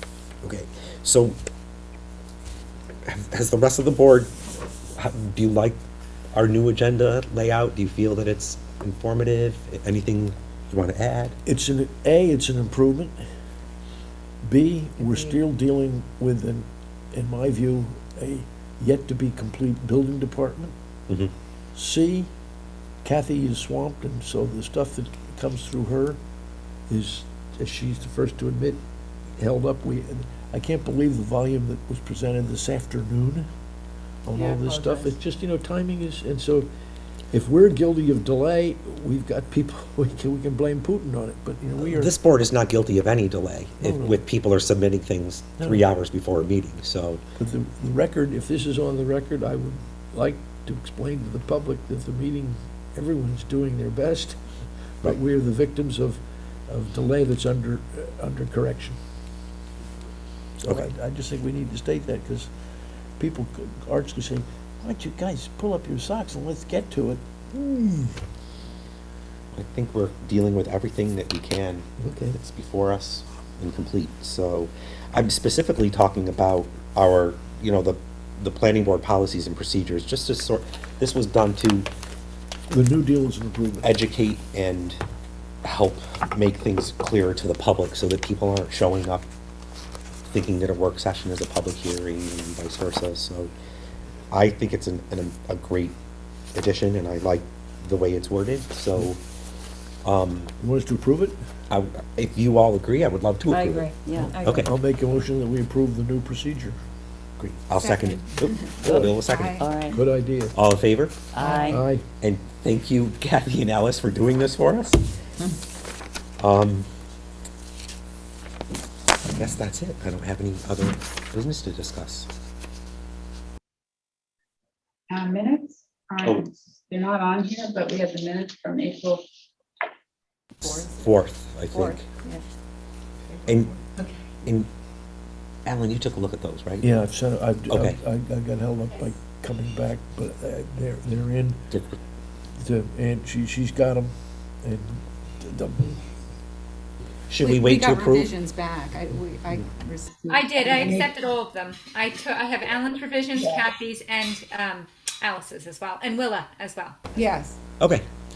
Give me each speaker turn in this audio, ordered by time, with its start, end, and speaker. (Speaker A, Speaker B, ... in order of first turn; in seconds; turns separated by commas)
Speaker A: 0.4-1.4, Speaker A: 3.0-4.3, Speaker A: 5.0-5.8, Speaker A: 6.3-11.3, Speaker B: 11.4-13.2, Speaker B: 14.4-20.7, Speaker B: 21.7-22.3, Speaker B: 23.0-26.2, Speaker B: 26.9-28.8, Speaker B: 29.4-33.5, Speaker B: 34.2-36.7, Speaker B: 37.3-42.1, Speaker A: 41.8-47.2, Speaker B: 43.8-44.2, Speaker B: 47.4-54.4, Speaker B: 55.0-59.0, Speaker B: 60.6-62.5, Speaker B: 63.2-68.2, Speaker A: 69.5-81.9, Speaker B: 72.0-72.3, Speaker B: 82.7-83.9, Speaker A: 83.8-85.0, Speaker A: 85.6-89.2, Speaker A: 90.3-93.5, Speaker A: 94.3-96.0, Speaker A: 96.5-99.2, Speaker A: 100.0-100.5, Speaker B: 100.6-101.4, Speaker A: 101.7-103.9, Speaker C: 103.6-103.9, Speaker D: 104.0-104.3, Speaker B: 104.1-106.8, Speaker A: 104.4-104.7, Speaker A: 107.6-109.6, Speaker C: 107.8-109.7, Speaker B: 108.8-109.1, Speaker D: 108.9-110.0, Speaker B: 109.8-110.5, Speaker A: 110.5-111.2, Speaker D: 111.3-111.8, Speaker B: 111.6-112.0, Speaker A: 112.2-115.0, Speaker A: 116.4-116.9, Speaker A: 119.3-122.3, Speaker E: 125.1-129.2, Speaker A: 130.6-132.1, Speaker A: 133.4-133.8, Speaker A: 135.7-136.9, Speaker B: 136.8-141.7, Speaker A: 137.7-138.0, Speaker A: 141.7-142.0, Speaker B: 142.6-146.0, Speaker A: 147.3-148.3, Speaker C: 147.4-150.1, Speaker E: 150.2-151.1, Speaker F: 150.3-157.2, Speaker C: 157.2-157.6, Speaker A: 157.8-158.0